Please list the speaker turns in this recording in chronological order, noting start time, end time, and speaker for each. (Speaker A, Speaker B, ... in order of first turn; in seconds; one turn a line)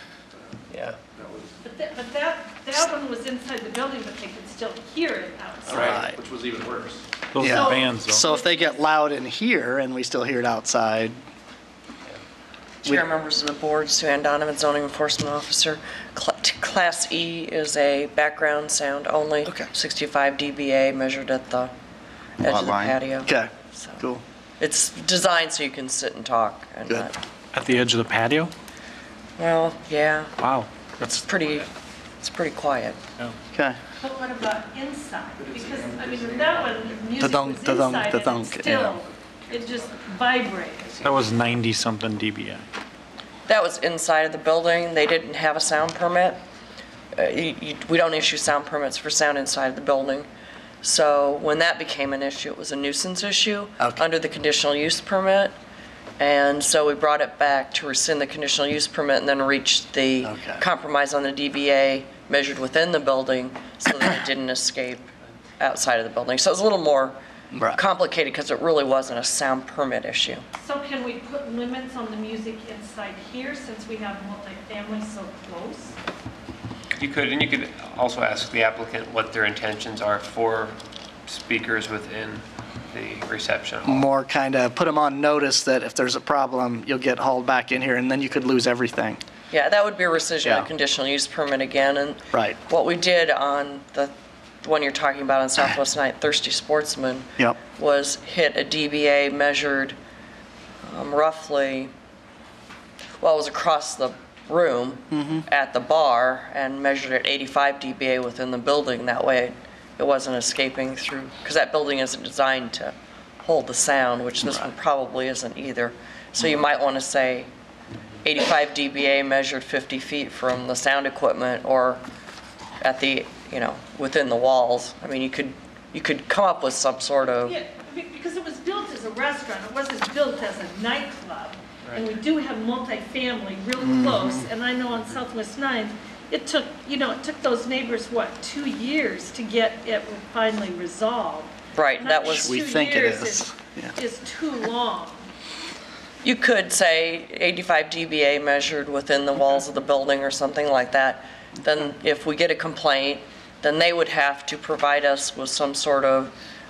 Speaker A: 0.7-1.0
Speaker B: 1.2-1.5
Speaker C: 1.6-6.0
Speaker D: 5.7-6.2
Speaker A: 5.7-6.0
Speaker B: 5.8-7.0
Speaker E: 7.3-8.2
Speaker D: 7.4-11.2
Speaker C: 7.4-8.8
Speaker F: 12.8-21.7
Speaker F: 22.4-24.0
Speaker B: 22.5-23.0
Speaker D: 23.2-24.2
Speaker F: 24.6-27.1
Speaker E: 27.5-28.5
Speaker F: 29.4-30.3
Speaker E: 30.4-31.2
Speaker F: 31.1-31.7
Speaker F: 32.2-33.0
Speaker C: 34.0-41.0
Speaker B: 35.5-36.3
Speaker D: 37.2-39.0
Speaker E: 41.0-42.6
Speaker F: 43.5-46.4
Speaker F: 47.1-50.2
Speaker F: 50.8-55.5
Speaker F: 56.2-67.2
Speaker D: 60.2-60.6
Speaker D: 67.5-67.8
Speaker F: 67.8-70.4
Speaker C: 70.6-76.0
Speaker A: 76.9-84.1
Speaker D: 83.8-89.2
Speaker F: 89.5-94.1
Speaker F: 94.6-100.0
Speaker F: 100.8-101.9
Speaker F: 103.2-117.5
Speaker D: 105.1-105.4
Speaker D: 114.4-114.7
Speaker F: 118.2-122.0
Speaker F: 122.8-127.5
Speaker C: 127.4-145.3
Speaker D: 133.8-134.4
Speaker F: 141.7-142.5
Speaker D: 142.2-143.9
Speaker F: 146.2-156.3